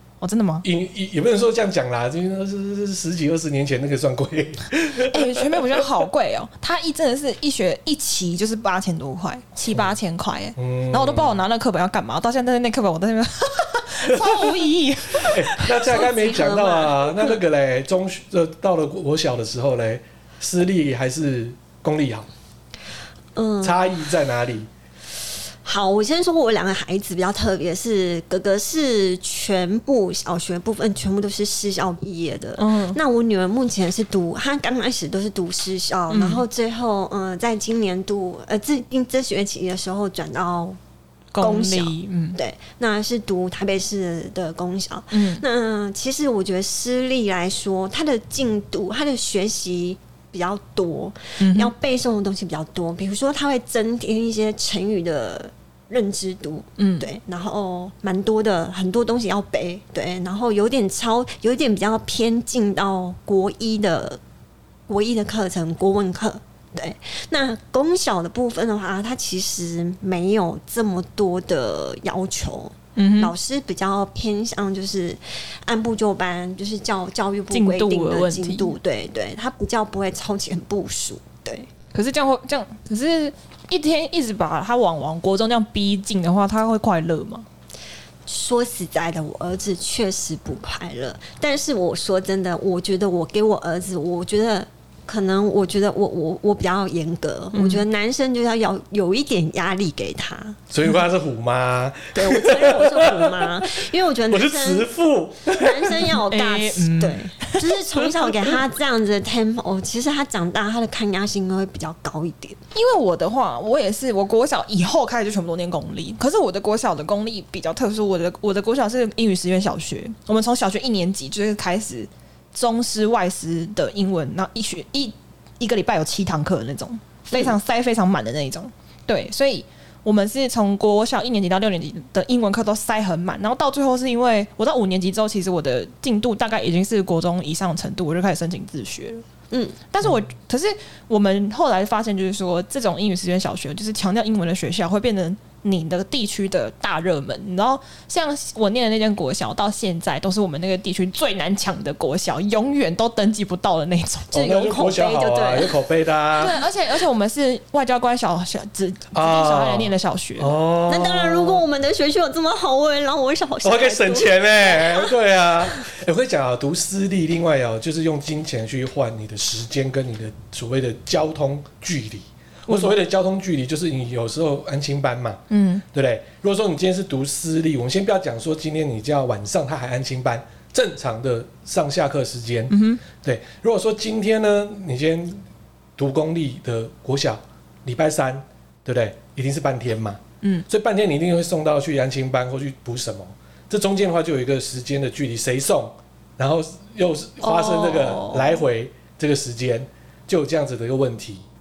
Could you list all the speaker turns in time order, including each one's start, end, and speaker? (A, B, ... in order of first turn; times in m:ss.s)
0:00.2-0:00.7 A
0:00.6-0:05.8 B
0:04.9-0:15.7 A
0:10.6-0:11.4 B
0:14.1-0:14.5 B
0:15.1-0:22.3 B
0:15.8-0:17.4 C
0:23.4-0:23.8 C
0:23.6-0:24.7 B
0:25.6-0:40.8 C
0:32.6-0:33.0 A
0:36.1-0:36.4 A
0:41.3-0:42.4 A
0:41.4-1:04.2 C
0:45.1-0:45.4 A
0:51.4-0:51.7 A
0:56.8-0:57.1 A
1:04.9-1:21.7 C
1:13.0-1:13.3 A
1:17.5-1:18.8 A
1:21.9-1:27.5 A
1:28.3-1:40.6 C
1:37.5-1:37.8 A
1:40.7-1:46.2 B
1:42.2-1:44.9 C
1:45.5-1:52.6 C
1:46.3-1:47.7 A
1:52.7-2:19.2 A
2:19.5-2:19.8 C
2:19.9-2:34.4 A
2:34.3-2:35.8 C
2:34.3-2:36.6 B
2:36.4-2:40.5 A
2:39.1-2:41.6 B
2:40.9-2:45.1 C
2:43.6-3:05.4 B
2:52.7-2:53.0 A
2:55.5-2:55.8 A
3:02.7-3:03.0 A
3:06.0-3:21.4 B
3:17.4-3:18.6 A